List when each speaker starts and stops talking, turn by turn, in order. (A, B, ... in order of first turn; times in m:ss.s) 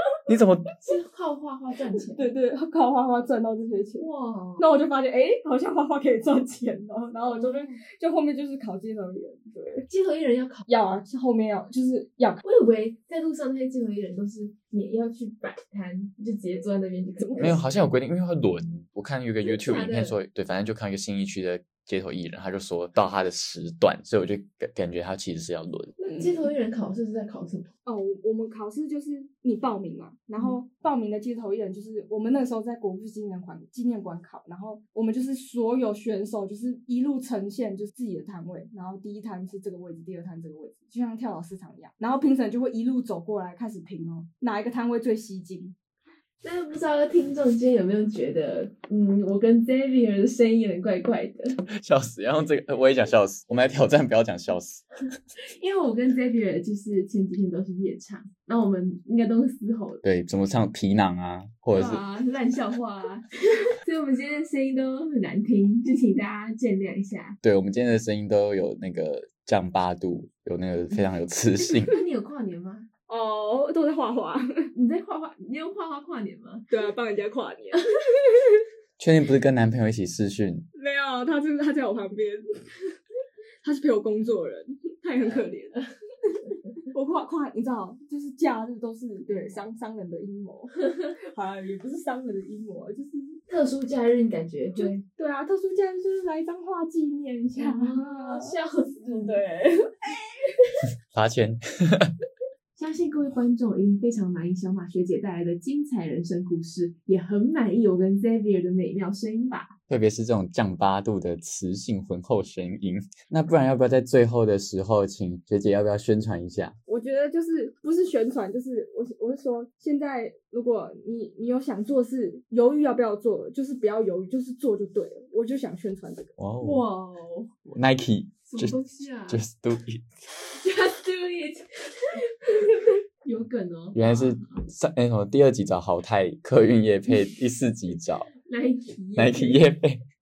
0:00.3-0:00.7 A
0:00.8-0:02.3 B
0:02.1-0:04.1 C
0:04.0-0:04.7 B
0:04.6-0:09.9 C
0:07.3-0:07.8 B
0:09.9-0:10.7 B
0:10.7-0:12.4 C
0:12.4-0:17.6 B
0:17.2-0:17.7 C
0:17.4-0:25.9 A
0:19.4-0:20.2 B
0:26.0-0:27.7 B
0:26.1-0:26.4 C
0:27.9-0:45.8 C
0:46.4-0:51.6 B
0:51.7-0:54.9 A
0:55.5-1:00.0 B
1:00.0-1:02.0 A
1:01.7-1:07.4 B
1:07.4-1:12.0 A
1:11.6-1:12.9 B
1:13.1-1:14.7 C
1:14.8-1:16.7 B
1:16.7-1:17.9 C
1:19.0-1:20.6 A
1:20.8-1:22.8 C
1:23.6-1:26.3 C
1:26.8-1:33.4 C
1:33.5-1:35.0 B
1:34.8-1:40.5 C
1:37.6-1:39.4 B
1:41.1-1:42.1 A
1:42.8-1:49.8 B
1:49.9-1:56.8 A
1:56.9-2:06.3 C
2:06.4-2:06.9 A
2:06.6-2:07.5 B
2:07.7-2:10.1 A
2:08.5-2:09.4 B
2:10.5-2:14.6 B
2:13.9-2:18.3 A
2:18.4-2:19.6 B
2:19.2-2:20.0 A